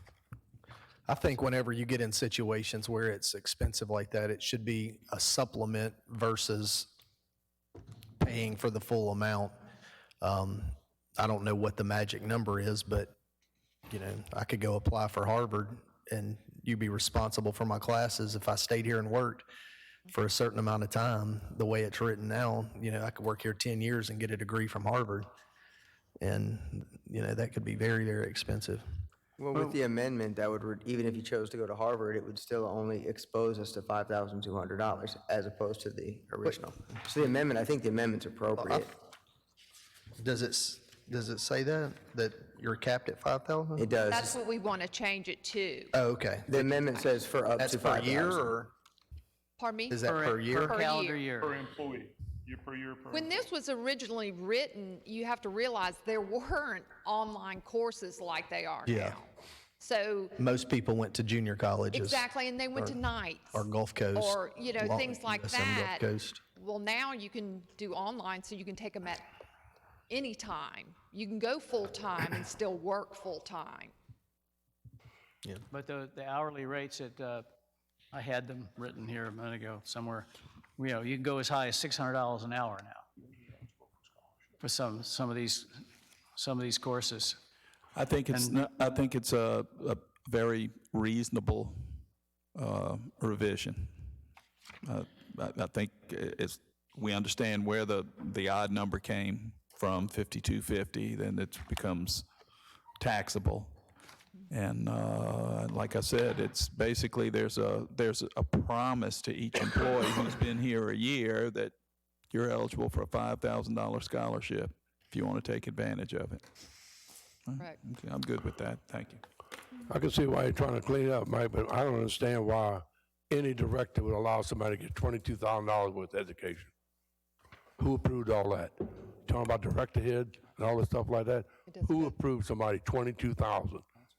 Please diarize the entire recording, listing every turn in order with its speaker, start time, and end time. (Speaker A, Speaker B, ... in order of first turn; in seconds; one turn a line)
Speaker A: 1.1-6.9
Speaker A: 8.2-9.5
Speaker A: 10.2-13.1
Speaker A: 13.9-19.4
Speaker A: 20.1-25.3
Speaker A: 26.2-28.8
Speaker B: 29.4-38.9
Speaker A: 40.2-43.9
Speaker B: 43.8-44.4
Speaker C: 44.0-46.0
Speaker A: 45.9-46.9
Speaker B: 46.5-48.5
Speaker A: 47.6-48.7
Speaker C: 49.6-50.0
Speaker A: 49.9-50.8
Speaker D: 50.1-51.5
Speaker C: 50.6-51.2
Speaker E: 51.4-53.4
Speaker C: 53.1-59.2
Speaker A: 58.9-59.2
Speaker C: 59.8-60.4
Speaker A: 60.4-62.2
Speaker C: 61.9-63.6
Speaker A: 62.7-63.0
Speaker A: 63.5-66.4
Speaker C: 64.1-69.3
Speaker C: 70.1-73.9
Speaker D: 75.7-77.5
Speaker D: 78.1-83.0
Speaker D: 84.6-85.8
Speaker D: 86.3-87.4
Speaker F: 87.9-91.8
Speaker D: 88.3-88.6
Speaker F: 92.5-94.1
Speaker F: 94.8-102.2
Speaker F: 103.0-103.8
Speaker F: 104.5-111.7
Speaker F: 112.3-116.4
Speaker F: 117.5-119.2
Speaker G: 119.9-126.7
Speaker G: 127.8-133.8
Speaker C: 131.7-132.1